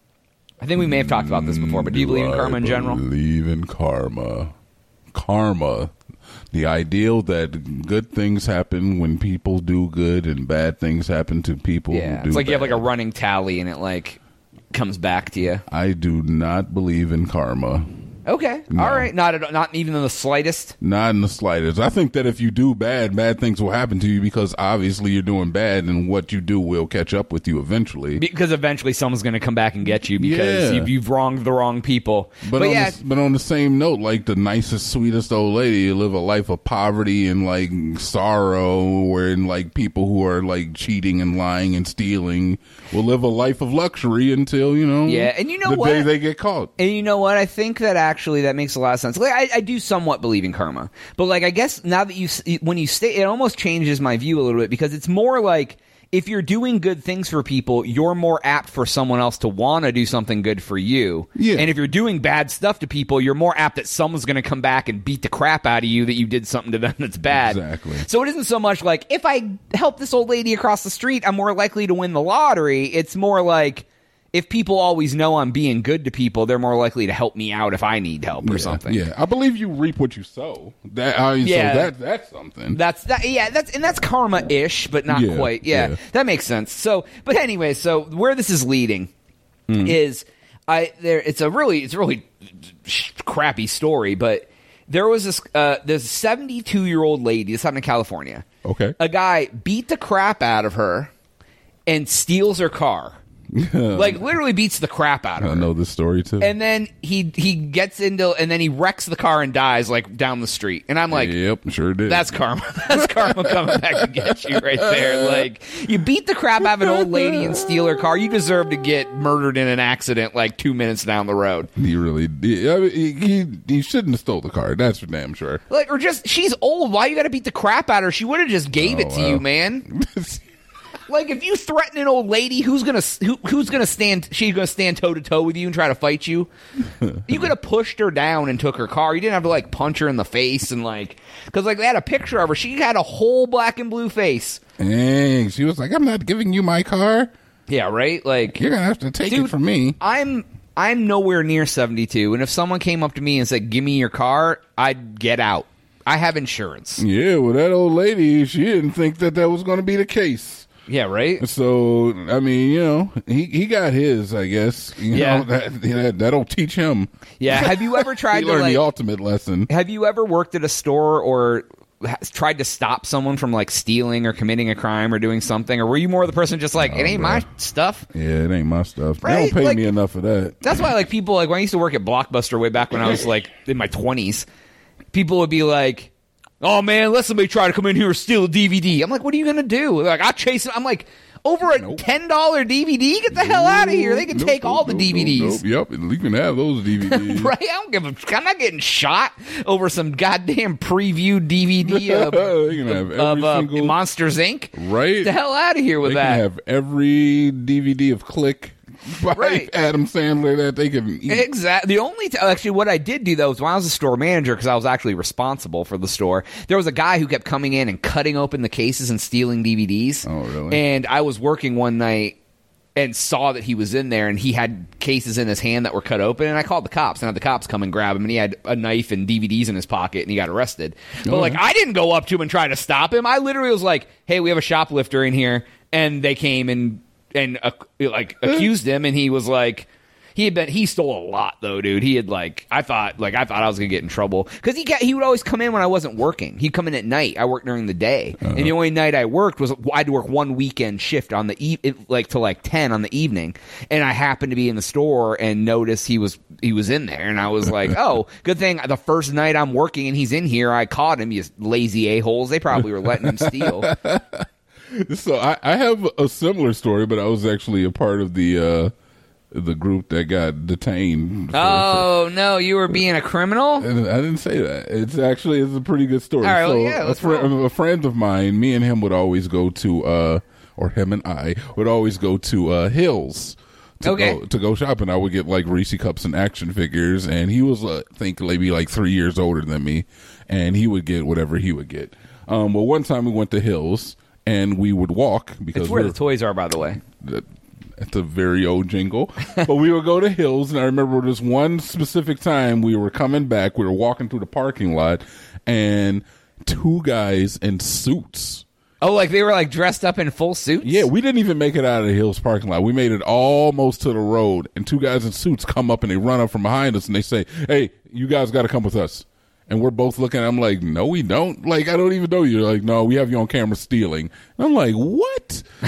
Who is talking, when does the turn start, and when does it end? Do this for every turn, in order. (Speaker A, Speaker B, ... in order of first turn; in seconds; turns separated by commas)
Speaker A: 0.6-3.0, Speaker B: 0.8-4.5, Speaker B: 5.1-5.9, Speaker B: 6.5-12.8, Speaker A: 11.9-14.2, Speaker A: 14.7-15.6, Speaker B: 15.7-17.9, Speaker A: 18.2-20.7, Speaker B: 18.7-19.1, Speaker B: 20.8-28.2, Speaker A: 28.1-33.0, Speaker B: 30.1-30.9, Speaker B: 32.4-46.7, Speaker A: 45.0-46.1, Speaker A: 46.8-79.0, Speaker B: 61.4-61.7, Speaker B: 67.3-68.0, Speaker B: 78.4-82.8, Speaker A: 81.4-81.9, Speaker A: 82.7-89.1, Speaker B: 85.1-86.0, Speaker B: 89.7-90.0, Speaker A: 89.8-92.3, Speaker A: 92.8-98.4, Speaker B: 98.6-99.0, Speaker A: 99.0-101.1, Speaker A: 101.9-103.2, Speaker B: 103.5-104.4, Speaker A: 103.9-105.7, Speaker B: 105.4-106.5, Speaker A: 106.4-111.3, Speaker B: 111.1-112.4, Speaker A: 112.1-121.7, Speaker B: 112.9-115.5, Speaker B: 116.6-117.6, Speaker B: 121.8-125.6, Speaker A: 125.7-129.8, Speaker B: 128.7-130.4, Speaker A: 131.1-136.5, Speaker B: 137.0-137.5, Speaker A: 137.3-144.6, Speaker B: 144.8-147.3, Speaker A: 147.7-148.6, Speaker B: 148.5-150.0, Speaker A: 149.3-157.0, Speaker B: 157.0-160.7, Speaker A: 160.9-161.4, Speaker B: 161.4-169.7, Speaker A: 165.1-165.5, Speaker A: 167.4-168.8, Speaker A: 169.7-178.1, Speaker B: 176.8-177.4, Speaker B: 178.1-180.7, Speaker A: 179.2-179.8, Speaker A: 180.6-184.4, Speaker A: 185.1-195.6, Speaker B: 191.8-192.0, Speaker B: 193.3-197.5, Speaker A: 197.0-206.4, Speaker B: 201.8-204.0, Speaker B: 204.7-205.3, Speaker B: 206.0-211.5, Speaker A: 209.3-209.7, Speaker A: 211.3-222.4, Speaker B: 220.2-220.8, Speaker A: 223.0-263.9, Speaker B: 231.2-231.6, Speaker B: 248.4-248.7, Speaker B: 262.8-268.9, Speaker B: 269.5-272.1, Speaker A: 271.5-273.9, Speaker B: 273.8-296.2, Speaker A: 276.4-277.5, Speaker A: 284.0-284.4, Speaker A: 295.7-297.0, Speaker B: 297.2-297.4, Speaker B: 298.0-308.6, Speaker A: 309.0-311.1, Speaker B: 310.8-325.6